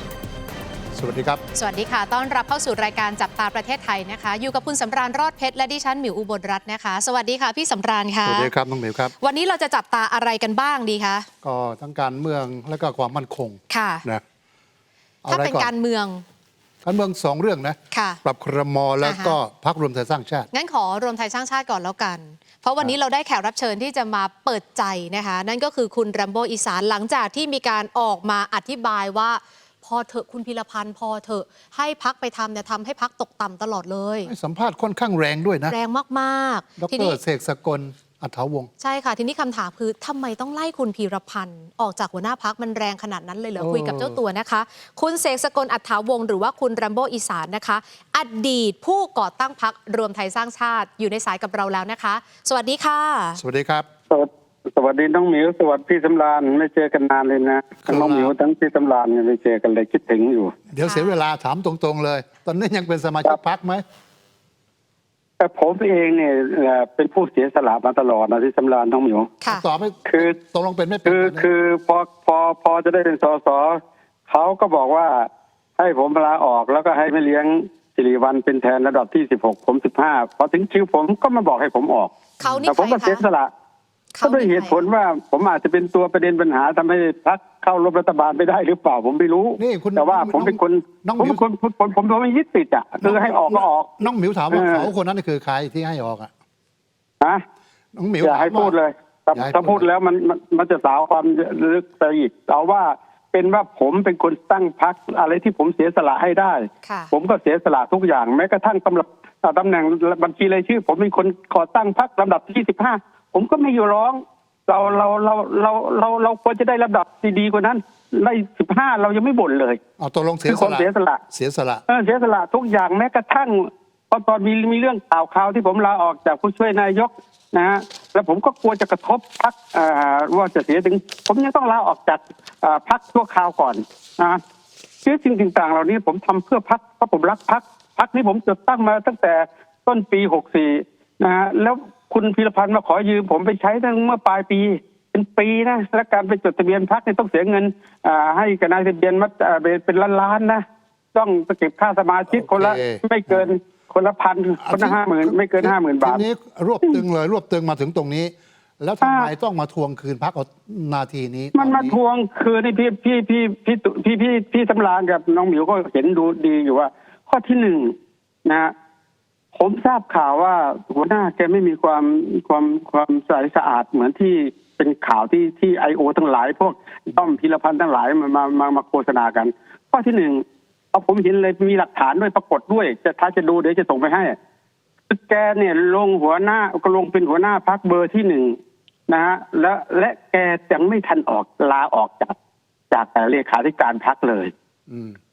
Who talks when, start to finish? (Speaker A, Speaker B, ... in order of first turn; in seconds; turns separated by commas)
Speaker A: 0.9-1.4, Speaker B: 1.6-8.5, Speaker A: 8.2-9.1, Speaker B: 9.2-11.3, Speaker A: 11.4-14.2, Speaker B: 13.7-14.0, Speaker A: 15.2-15.7, Speaker B: 15.3-16.2, Speaker A: 16.8-20.5, Speaker B: 17.9-18.2, Speaker B: 19.0-19.4, Speaker B: 20.5-34.3, Speaker A: 34.2-35.8, Speaker B: 35.7-37.2, Speaker A: 36.8-38.7, Speaker B: 38.8-53.4, Speaker A: 43.6-44.2, Speaker A: 53.4-53.9, Speaker C: 54.1-60.5, Speaker A: 57.8-58.3, Speaker A: 60.7-63.8, Speaker B: 60.8-61.1, Speaker C: 65.4-69.3, Speaker A: 69.5-71.5, Speaker C: 70.1-70.4, Speaker C: 71.0-82.1, Speaker B: 82.4-83.2, Speaker A: 82.4-82.7, Speaker C: 82.7-83.5, Speaker B: 84.2-84.8, Speaker C: 84.2-94.0, Speaker A: 89.6-91.4, Speaker A: 93.0-96.3, Speaker C: 94.5-94.9, Speaker A: 98.0-98.8, Speaker C: 98.2-119.8, Speaker A: 99.3-99.9, Speaker B: 106.8-107.1, Speaker A: 120.0-121.8, Speaker C: 120.5-121.2, Speaker C: 121.9-134.4, Speaker C: 135.0-150.6, Speaker C: 151.1-156.2, Speaker A: 152.3-153.5, Speaker A: 154.6-162.0, Speaker C: 159.0-159.3, Speaker C: 161.6-168.7, Speaker C: 169.5-184.4, Speaker C: 185.1-188.6, Speaker C: 189.1-192.3, Speaker C: 192.9-194.5, Speaker A: 194.9-195.2